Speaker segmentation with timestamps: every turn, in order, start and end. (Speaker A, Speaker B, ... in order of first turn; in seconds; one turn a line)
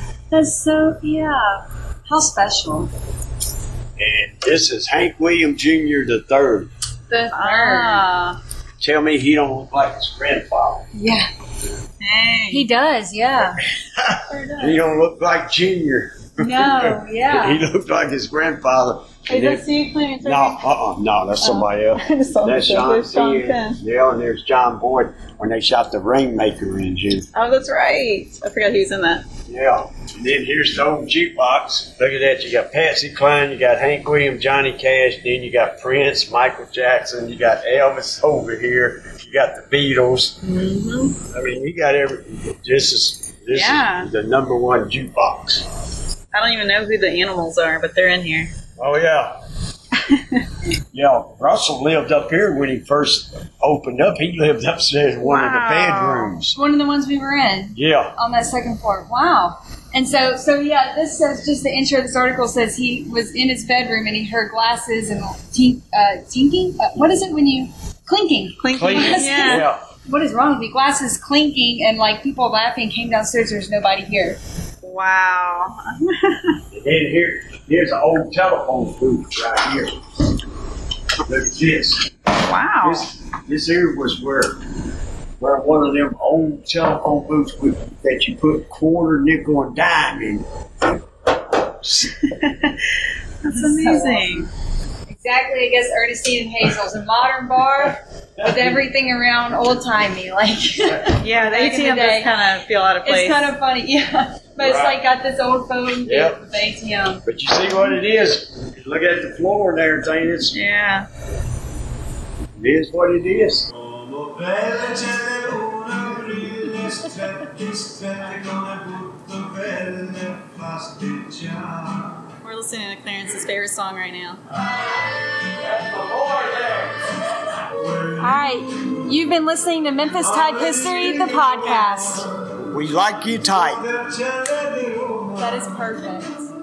Speaker A: 0.3-2.9
Speaker B: 4.0-6.7
Speaker A: 7.1-8.1
Speaker C: 7.3-8.4
Speaker B: 8.8-10.9
Speaker A: 10.9-11.3
Speaker C: 12.0-12.7
Speaker A: 12.5-13.6
Speaker B: 13.8-19.6
Speaker C: 14.3-14.8
Speaker A: 16.4-17.6
Speaker C: 19.3-20.6
Speaker B: 20.2-27.3
Speaker C: 21.4-23.8
Speaker C: 27.3-29.3
Speaker B: 29.5-40.4
Speaker C: 40.4-41.2
Speaker B: 41.2-45.7
Speaker C: 43.5-44.1
Speaker C: 46.3-48.5
Speaker B: 48.8-49.4
Speaker C: 50.1-50.4
Speaker B: 50.9-56.6
Speaker C: 55.2-56.4
Speaker A: 56.5-74.4
Speaker B: 57.8-58.1
Speaker C: 68.6-69.7
Speaker B: 68.7-69.8
Speaker C: 74.8-76.6
Speaker B: 76.7-79.9
Speaker B: 81.2-82.1
Speaker C: 82.4-83.1
Speaker B: 82.8-84.6
Speaker B: 85.4-90.5
Speaker B: 91.6-92.2
Speaker C: 92.2-94.5
Speaker A: 93.5-94.4
Speaker A: 95.1-102.3
Speaker B: 98.4-98.9
Speaker C: 101.1-103.5
Speaker A: 103.0-107.2
Speaker B: 104.6-105.0
Speaker B: 106.0-106.4
Speaker B: 107.2-110.6
Speaker C: 110.5-111.1
Speaker B: 112.6-122.3
Speaker C: 122.4-124.4
Speaker B: 124.5-128.4
Speaker A: 128.2-132.3
Speaker B: 130.2-135.8
Speaker A: 135.4-136.5